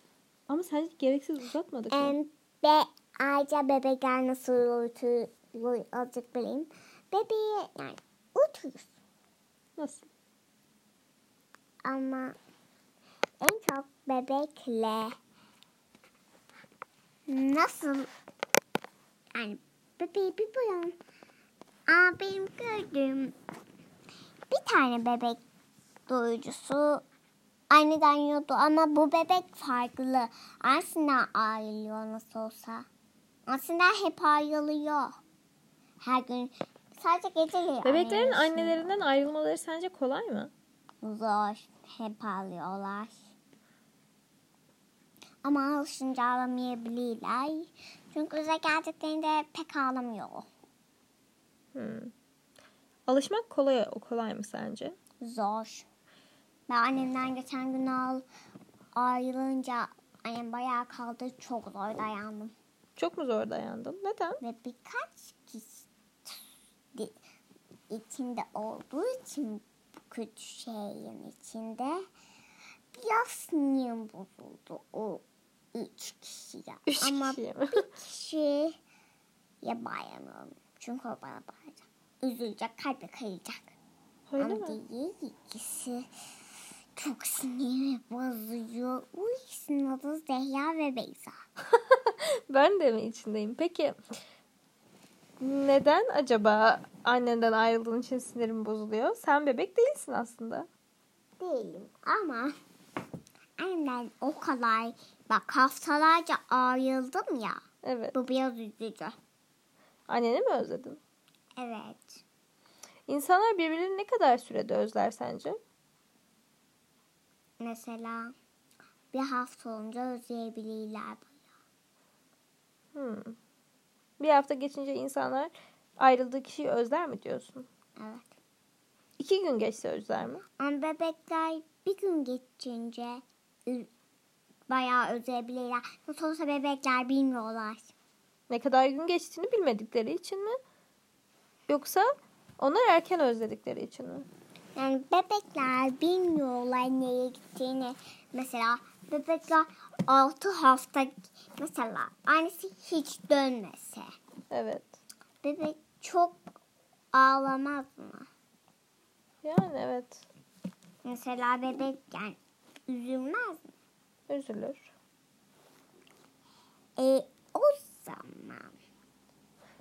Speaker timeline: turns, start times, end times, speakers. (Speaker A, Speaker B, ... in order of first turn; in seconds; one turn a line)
Speaker A: 0.5-2.1
Speaker B: 1.9-8.9
Speaker A: 9.8-10.1
Speaker B: 11.8-12.4
Speaker B: 13.4-15.2
Speaker B: 17.3-18.1
Speaker B: 19.4-20.9
Speaker B: 21.9-23.4
Speaker B: 24.5-25.4
Speaker B: 26.1-27.0
Speaker B: 27.7-32.9
Speaker B: 33.5-35.2
Speaker B: 36.0-38.9
Speaker A: 37.8-40.5
Speaker B: 41.0-43.2
Speaker B: 45.4-50.5
Speaker A: 51.8-52.1
Speaker A: 53.1-55.0
Speaker B: 55.2-55.9
Speaker B: 56.7-58.2
Speaker B: 59.0-62.5
Speaker A: 63.0-64.4
Speaker B: 64.4-66.4
Speaker B: 67.9-72.0
Speaker B: 72.9-75.2
Speaker B: 75.7-78.8
Speaker A: 76.9-77.8
Speaker B: 79.6-83.8
Speaker A: 84.3-84.8
Speaker B: 84.4-86.1
Speaker B: 87.0-91.3
Speaker A: 91.7-94.0
Speaker A: 95.4-100.7
Speaker B: 101.4-102.5
Speaker B: 103.6-107.6
Speaker A: 107.8-108.1
Speaker B: 108.1-109.2
Speaker A: 110.1-111.0
Speaker B: 111.6-112.2
Speaker A: 113.1-115.6
Speaker B: 117.6-118.3
Speaker B: 119.1-121.4
Speaker A: 123.0-123.4
Speaker A: 124.2-127.7
Speaker B: 128.0-128.4
Speaker A: 129.2-130.4
Speaker B: 130.6-133.9
Speaker B: 134.7-137.9
Speaker A: 138.5-140.6
Speaker A: 141.7-142.1
Speaker A: 142.6-144.3
Speaker B: 144.8-154.1
Speaker A: 154.5-155.0
Speaker B: 155.4-156.4
Speaker B: 157.1-158.3
Speaker A: 159.4-160.3
Speaker B: 161.1-163.7
Speaker A: 164.3-164.9
Speaker B: 167.0-168.8